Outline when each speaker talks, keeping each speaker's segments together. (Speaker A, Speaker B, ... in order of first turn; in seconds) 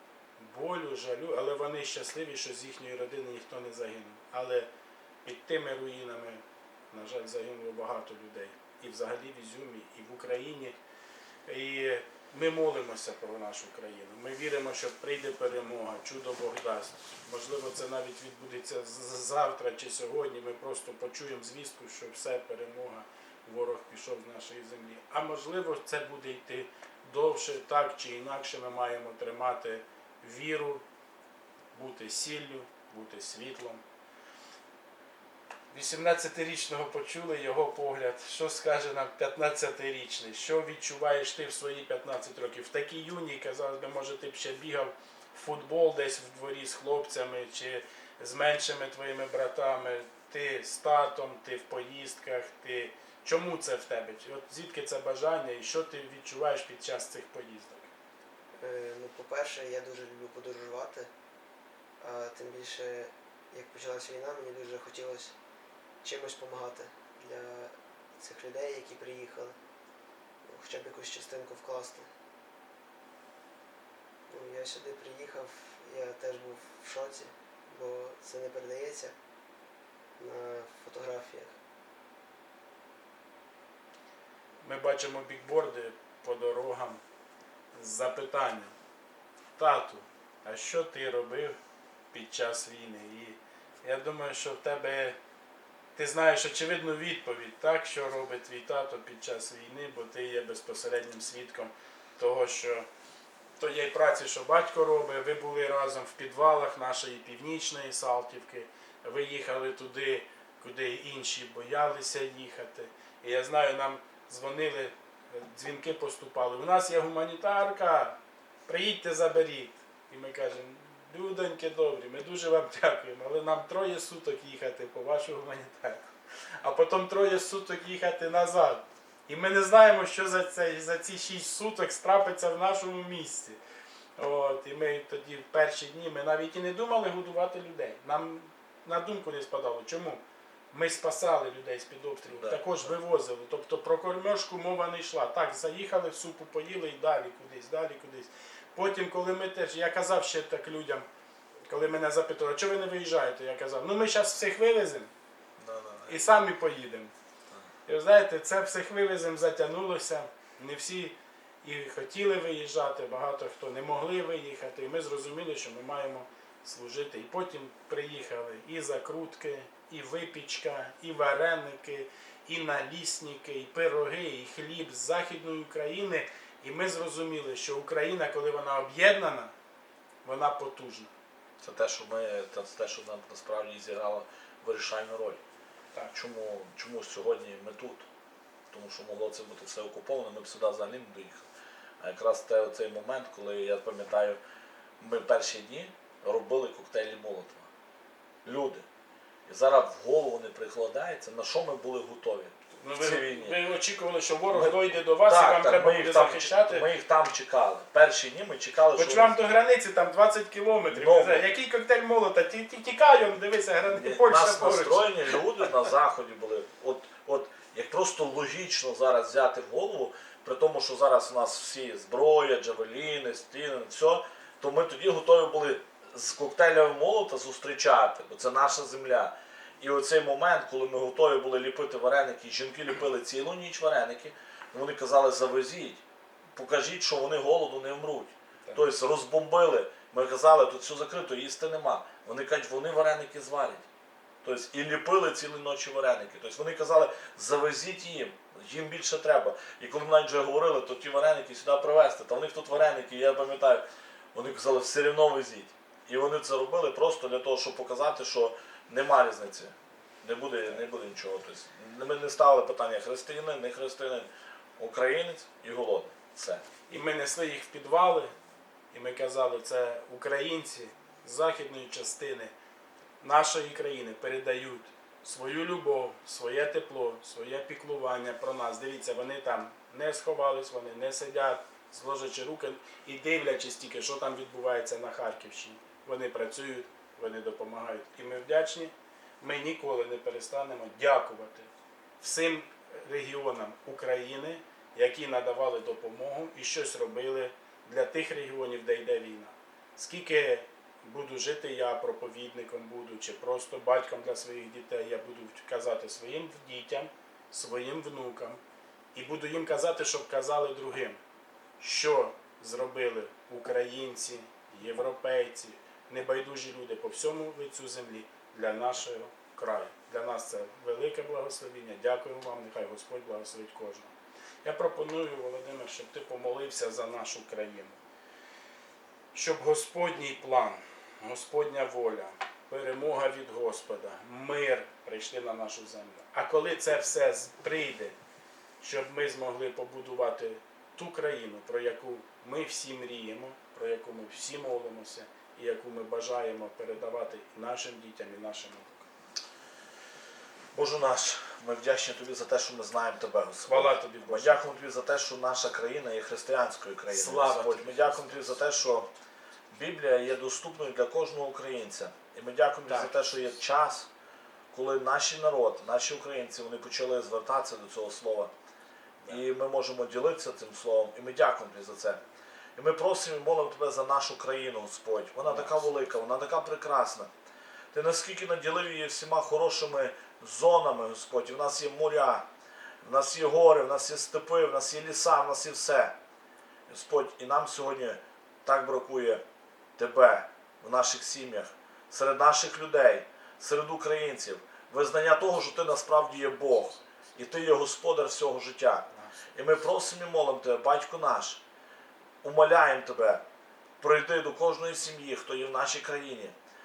Speaker A: 0.4-4.7, 5.2-10.8, 11.4-30.8, 31.7-33.8, 35.7-57.9, 84.6-87.0, 87.7-88.7, 89.6-91.6, 92.1-95.2, 96.0-102.9, 103.6-126.1, 126.6-133.6, 134.2-151.0, 151.7-155.1, 156.1-157.1, 157.8-179.5, 180.2-181.1, 202.8-206.9, 208.9-215.1, 266.9-268.3, 268.9-272.5, 273.2-291.7, 292.2-308.6, 309.1-311.2, 311.8-324.1, 324.6-328.0, 329.3-338.1, 338.8-349.1, 353.6-354.6, 357.1-358.7, 362.9-363.1, 375.4-375.9
Speaker B: 58.6-61.1, 62.0-65.3, 66.0-69.6, 70.4-72.1, 74.3-79.1, 80.2-81.6
Speaker C: 142.2-142.9, 155.6-156.4, 181.6-185.4, 186.1-188.0, 188.7-191.4, 192.0-194.4, 195.0-197.7, 198.4-198.8, 199.5-203.6, 204.5-209.3, 210.9-211.4, 213.8-236.0, 236.5-243.8, 244.4-266.6, 350.7-359.1, 359.7-364.1, 364.7-368.5, 369.3-372.2, 372.8-377.3, 377.9-382.4, 383.0-386.1, 386.9-389.4, 390.0-401.6, 402.4-403.4, 404.0-406.5